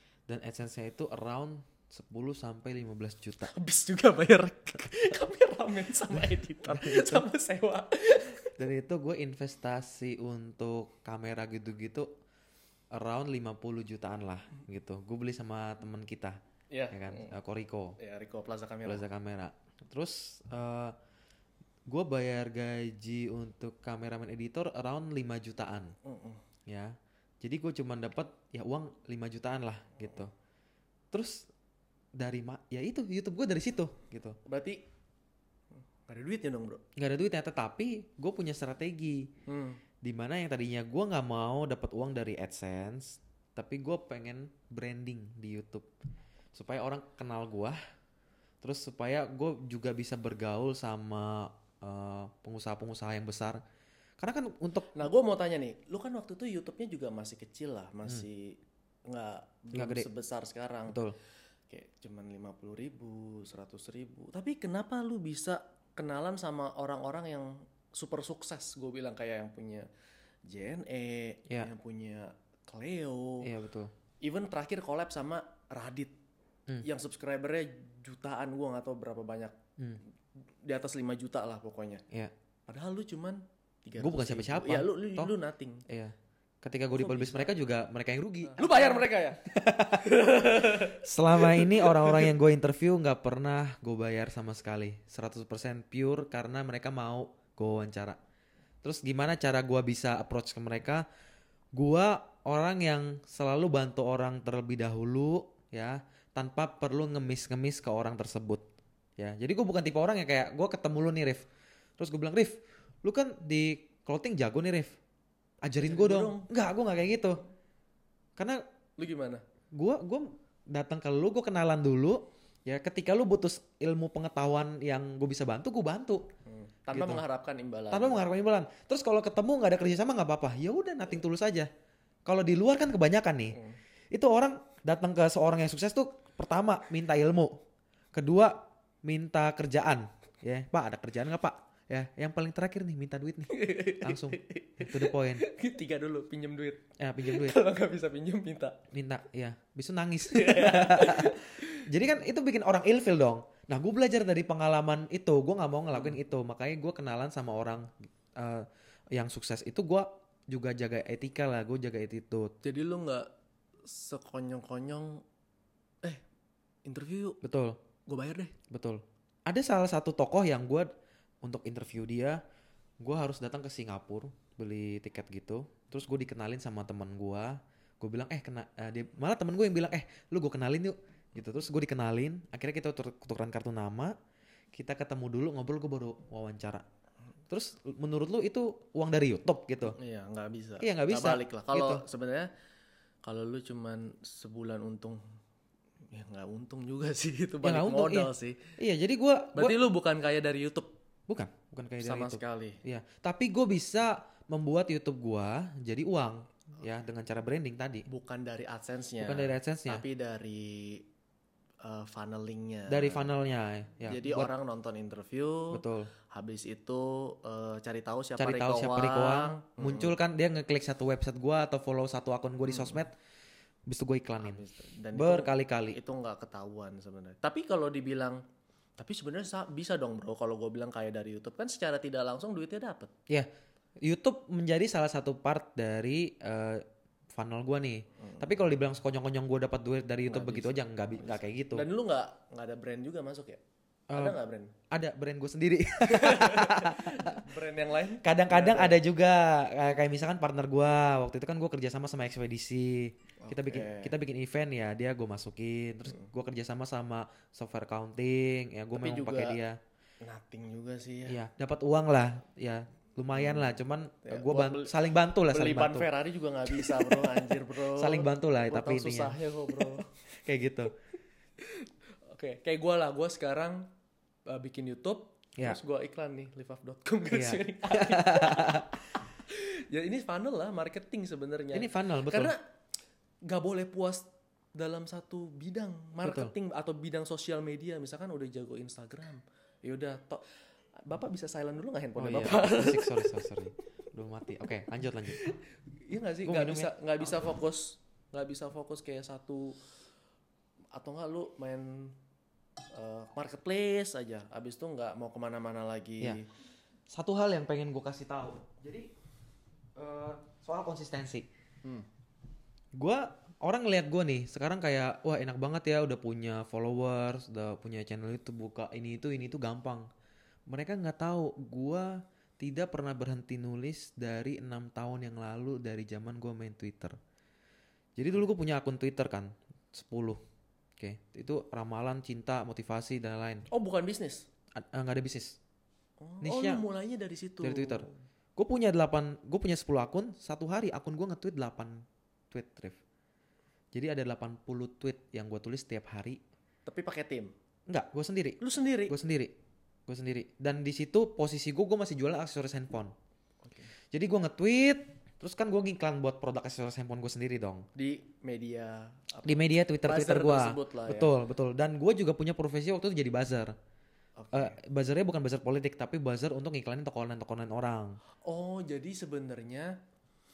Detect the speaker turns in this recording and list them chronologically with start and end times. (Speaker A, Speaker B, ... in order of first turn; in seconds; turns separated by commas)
Speaker A: 0.3-3.5, Speaker B: 3.5-8.4, Speaker A: 6.7-7.2, Speaker A: 8.6-12.1, Speaker A: 12.9-16.4, Speaker B: 16.7-17.3, Speaker A: 16.9-18.0, Speaker B: 18.0-19.0, Speaker A: 18.8-20.9, Speaker A: 21.9-26.0, Speaker B: 26.0-26.4, Speaker A: 26.7-30.3, Speaker A: 31.1-31.5, Speaker A: 32.1-34.4, Speaker B: 34.5-34.8, Speaker B: 36.0-36.8, Speaker A: 37.0-39.3, Speaker B: 39.5-39.8, Speaker A: 40.0-45.9, Speaker A: 46.5-47.8, Speaker A: 48.6-53.6, Speaker A: 54.2-54.9, Speaker B: 54.9-61.0, Speaker A: 59.7-60.1, Speaker A: 60.9-61.1, Speaker B: 61.7-69.9, Speaker B: 70.5-73.5, Speaker A: 73.4-73.9, Speaker B: 74.2-76.1, Speaker B: 76.8-79.5, Speaker B: 80.6-82.0, Speaker B: 82.7-85.8, Speaker A: 84.0-85.3, Speaker A: 85.9-98.2, Speaker B: 86.9-87.5, Speaker B: 88.5-89.4, Speaker B: 90.0-92.3, Speaker A: 98.8-101.0, Speaker A: 101.7-108.6, Speaker A: 109.2-111.4, Speaker A: 112.0-115.0, Speaker A: 115.6-117.4, Speaker B: 115.8-116.5, Speaker A: 118.4-118.6, Speaker B: 119.0-119.4, Speaker A: 119.7-126.2, Speaker B: 126.4-128.2, Speaker A: 126.9-127.2, Speaker A: 127.9-131.7, Speaker A: 132.3-133.6, Speaker A: 134.1-137.6, Speaker A: 138.1-145.4, Speaker B: 143.5-148.8, Speaker A: 147.0-147.6, Speaker A: 148.9-162.5, Speaker B: 150.3-151.7, Speaker B: 162.6-163.3, Speaker B: 163.8-165.2, Speaker B: 166.8-167.4, Speaker A: 167.4-167.8, Speaker B: 168.1-168.5, Speaker A: 168.7-170.9, Speaker A: 171.4-172.4, Speaker A: 173.0-184.1, Speaker A: 184.7-186.8, Speaker A: 187.5-190.0, Speaker B: 189.9-192.5, Speaker A: 190.8-192.0, Speaker B: 193.2-195.2, Speaker B: 196.1-198.6, Speaker A: 197.6-199.8, Speaker B: 199.5-200.9, Speaker A: 201.3-208.1, Speaker B: 202.0-202.8, Speaker B: 208.1-211.0, Speaker A: 209.2-210.0, Speaker B: 211.8-213.3, Speaker A: 212.9-214.5, Speaker B: 214.1-220.1, Speaker A: 215.7-216.1, Speaker A: 218.4-223.1, Speaker B: 222.7-223.0, Speaker A: 223.9-224.6, Speaker B: 224.4-228.4, Speaker A: 225.1-226.0, Speaker B: 229.0-233.1, Speaker A: 234.0-241.8, Speaker B: 240.3-243.6, Speaker A: 244.1-244.4, Speaker B: 244.1-244.7, Speaker A: 244.9-247.4, Speaker B: 246.0-249.0, Speaker A: 248.2-259.8, Speaker B: 253.4-254.1, Speaker B: 258.9-259.6, Speaker B: 260.2-261.4, Speaker A: 261.3-266.1, Speaker B: 263.4-263.7, Speaker B: 264.2-270.0, Speaker A: 266.7-270.9, Speaker B: 271.6-273.9, Speaker B: 274.4-282.6, Speaker A: 277.3-278.9, Speaker A: 281.7-282.5, Speaker B: 283.4-290.4, Speaker A: 286.2-286.5, Speaker B: 291.0-293.4, Speaker A: 292.2-295.4, Speaker B: 295.3-299.8, Speaker A: 296.4-296.9, Speaker B: 300.9-302.2, Speaker B: 302.9-306.5, Speaker A: 307.1-309.1, Speaker A: 310.0-311.5, Speaker A: 312.9-320.1, Speaker A: 320.7-327.2, Speaker A: 328.2-330.4, Speaker A: 331.0-333.6, Speaker B: 333.7-334.5, Speaker A: 334.8-335.6, Speaker B: 336.2-338.1, Speaker A: 336.4-336.8, Speaker A: 337.6-343.0, Speaker A: 343.9-346.4, Speaker B: 346.9-347.5, Speaker A: 347.9-349.5, Speaker B: 348.6-349.1, Speaker A: 350.1-353.1, Speaker B: 353.6-353.9, Speaker A: 354.1-357.9, Speaker B: 357.9-361.3, Speaker A: 359.4-363.7, Speaker B: 364.4-364.8, Speaker A: 364.5-368.2, Speaker B: 368.4-370.0